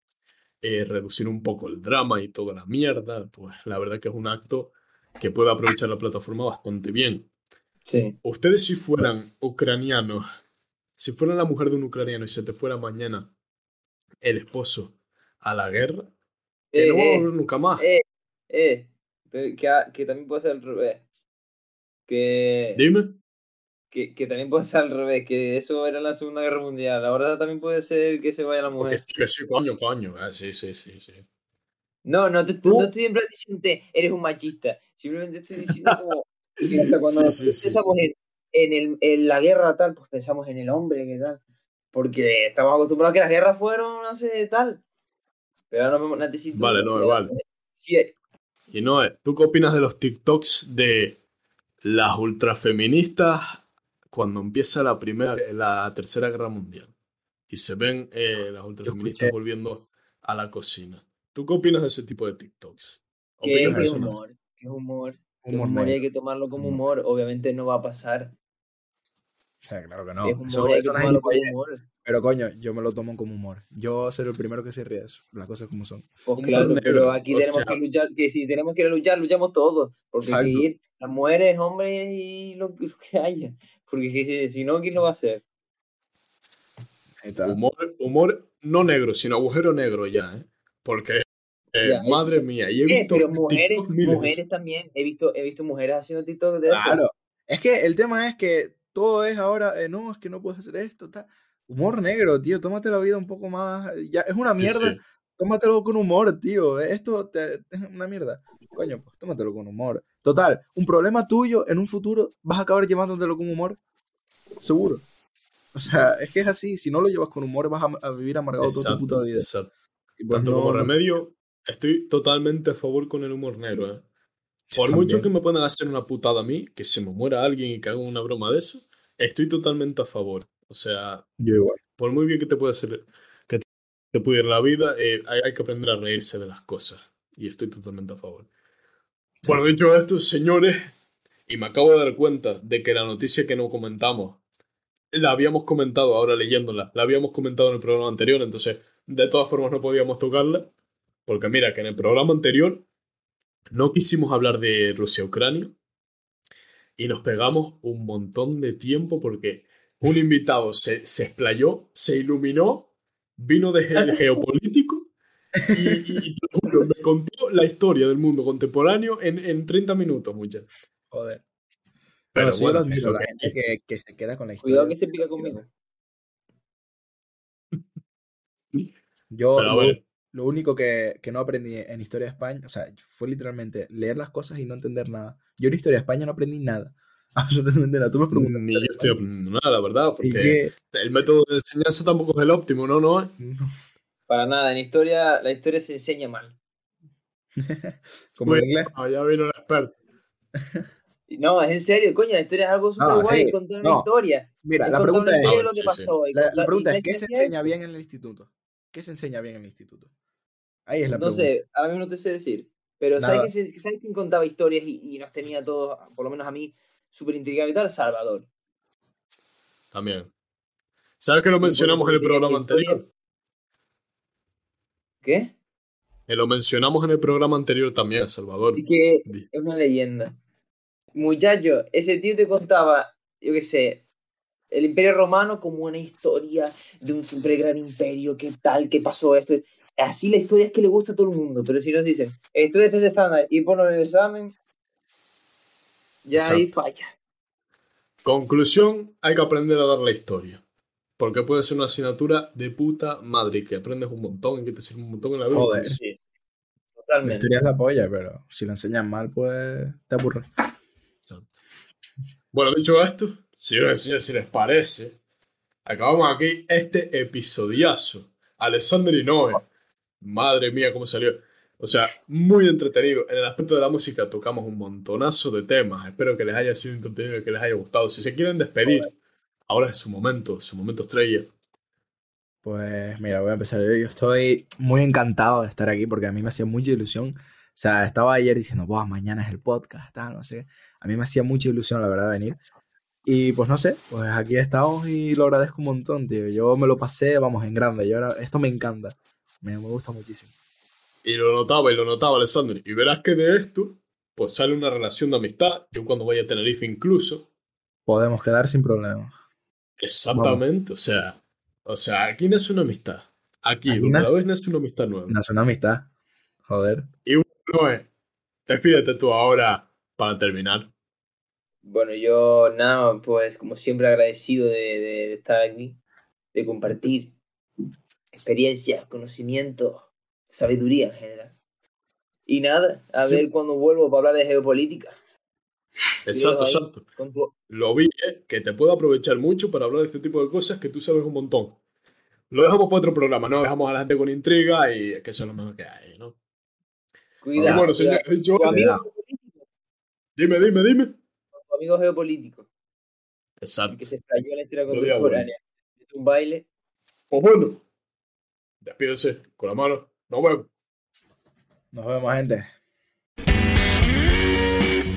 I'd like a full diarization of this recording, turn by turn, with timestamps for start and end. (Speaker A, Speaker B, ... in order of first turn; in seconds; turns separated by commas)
Speaker A: 0.6-7.3, Speaker B: 7.8-8.2, Speaker A: 8.2-10.2, Speaker A: 11.0-13.3, Speaker A: 14.2-16.1, Speaker B: 16.7-21.0, Speaker A: 16.7-17.9, Speaker B: 22.1-22.8, Speaker A: 22.7-23.2, Speaker B: 23.9-29.0, Speaker A: 28.8-31.2, Speaker B: 32.0-41.4, Speaker A: 32.6-32.9, Speaker A: 35.7-36.0, Speaker A: 36.6-37.8, Speaker B: 41.9-44.8, Speaker B: 45.7-48.1, Speaker A: 46.5-47.3, Speaker A: 48.7-51.2, Speaker A: 51.8-56.9, Speaker A: 57.5-64.1, Speaker C: 58.8-59.3, Speaker B: 63.4-68.3, Speaker C: 63.7-64.1, Speaker C: 65.4-66.0, Speaker C: 69.6-71.5, Speaker B: 70.2-71.8, Speaker C: 72.0-76.7, Speaker B: 76.2-85.4, Speaker A: 76.3-77.8, Speaker C: 80.2-80.6, Speaker C: 87.2-87.6, Speaker A: 87.4-94.4, Speaker B: 91.8-97.0, Speaker C: 96.7-113.8, Speaker A: 104.6-105.0, Speaker C: 114.6-115.0, Speaker C: 115.7-119.5, Speaker A: 118.6-119.7, Speaker C: 120.2-120.9, Speaker A: 120.3-124.0, Speaker C: 124.7-125.3, Speaker A: 124.8-131.2, Speaker C: 131.4-131.8, Speaker A: 132.0-138.5, Speaker A: 139.4-140.9, Speaker A: 141.5-144.4, Speaker A: 145.1-150.7, Speaker A: 151.2-152.8, Speaker A: 153.7-155.7, Speaker A: 157.0-165.1, Speaker C: 165.6-166.0, Speaker A: 165.7-170.7, Speaker C: 171.1-171.4, Speaker A: 172.3-173.5, Speaker C: 172.3-175.5, Speaker B: 174.6-175.7, Speaker C: 179.3-189.1, Speaker A: 179.6-180.0, Speaker A: 188.3-193.3, Speaker C: 190.2-190.7, Speaker C: 193.4-193.7, Speaker B: 194.3-196.6, Speaker C: 197.6-198.9, Speaker A: 198.4-200.0, Speaker B: 201.3-207.5, Speaker C: 203.0-204.1, Speaker C: 204.6-205.6, Speaker A: 205.4-206.1, Speaker C: 206.3-210.1, Speaker C: 210.8-211.5, Speaker B: 211.1-218.5, Speaker C: 213.2-213.5, Speaker A: 219.9-220.3, Speaker A: 221.2-223.1, Speaker B: 221.6-223.0, Speaker B: 225.2-225.5, Speaker A: 226.3-229.5, Speaker B: 228.8-230.4, Speaker B: 231.1-234.0, Speaker B: 234.7-244.6, Speaker B: 246.2-247.1, Speaker A: 246.3-246.7, Speaker A: 248.2-250.6, Speaker A: 251.2-256.0, Speaker C: 255.5-256.0, Speaker B: 257.0-257.5, Speaker C: 257.2-260.4, Speaker A: 261.2-261.6, Speaker A: 262.5-265.2, Speaker A: 265.9-269.6, Speaker A: 270.2-279.1, Speaker A: 279.7-281.5, Speaker C: 282.6-292.6, Speaker C: 293.2-300.5, Speaker A: 301.2-307.5, Speaker C: 308.1-309.3, Speaker A: 310.0-315.4, Speaker C: 310.3-310.6, Speaker C: 313.9-314.3, Speaker C: 315.3-316.1, Speaker C: 316.7-317.1, Speaker A: 317.2-318.1, Speaker A: 318.7-320.9, Speaker B: 321.8-326.0, Speaker B: 326.5-327.3, Speaker B: 328.3-331.5, Speaker B: 332.5-335.1, Speaker A: 336.2-337.0, Speaker B: 336.3-337.5, Speaker A: 337.7-341.8, Speaker A: 342.5-346.4, Speaker B: 347.4-349.6, Speaker A: 347.6-349.0, Speaker C: 348.7-349.0, Speaker A: 350.4-351.1, Speaker B: 351.6-352.7, Speaker A: 353.6-354.1, Speaker B: 353.9-356.6, Speaker A: 354.9-355.5, Speaker A: 357.3-357.8, Speaker A: 358.8-360.7, Speaker C: 361.9-362.7